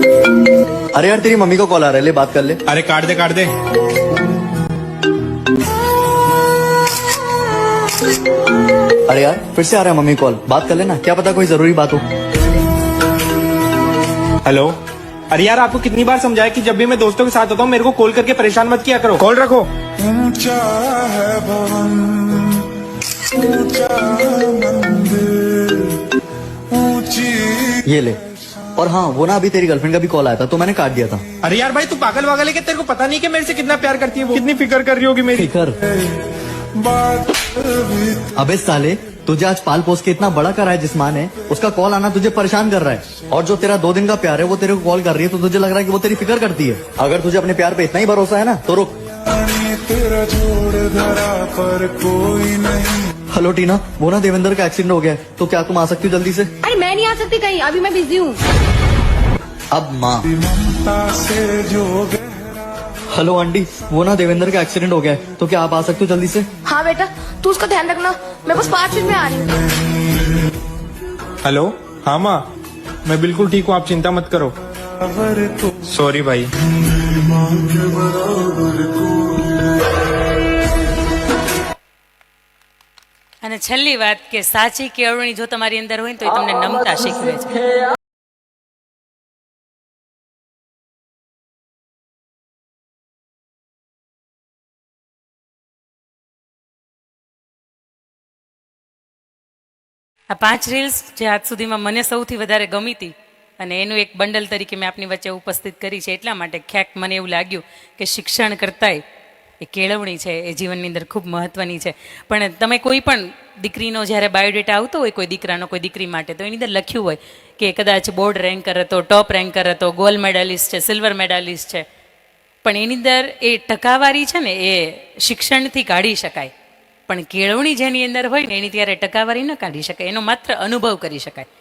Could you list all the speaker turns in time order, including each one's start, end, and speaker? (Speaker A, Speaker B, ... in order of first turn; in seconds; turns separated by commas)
Speaker A: 0.9-2.6, Speaker B: 2.7-3.5, Speaker A: 9.1-12.0, Speaker B: 14.5-14.8, Speaker B: 15.3-19.7, Speaker C: 20.0-22.6, Speaker C: 23.4-25.9, Speaker C: 26.7-27.8, Speaker A: 27.9-28.2, Speaker A: 28.8-31.2, Speaker B: 31.4-35.5, Speaker A: 35.3-35.8, Speaker A: 38.4-48.9, Speaker C: 49.4-53.0, Speaker A: 53.3-56.5, Speaker D: 56.6-58.4, Speaker A: 59.7-60.2, Speaker C: 60.6-62.4, Speaker A: 63.1-66.5, Speaker D: 66.7-69.6, Speaker B: 71.4-72.4, Speaker B: 73.1-74.5, Speaker B: 75.9-76.5, Speaker E: 83.4-87.5, Speaker E: 100.3-109.0, Speaker E: 109.6-121.8, Speaker E: 122.6-126.5, Speaker E: 127.1-131.5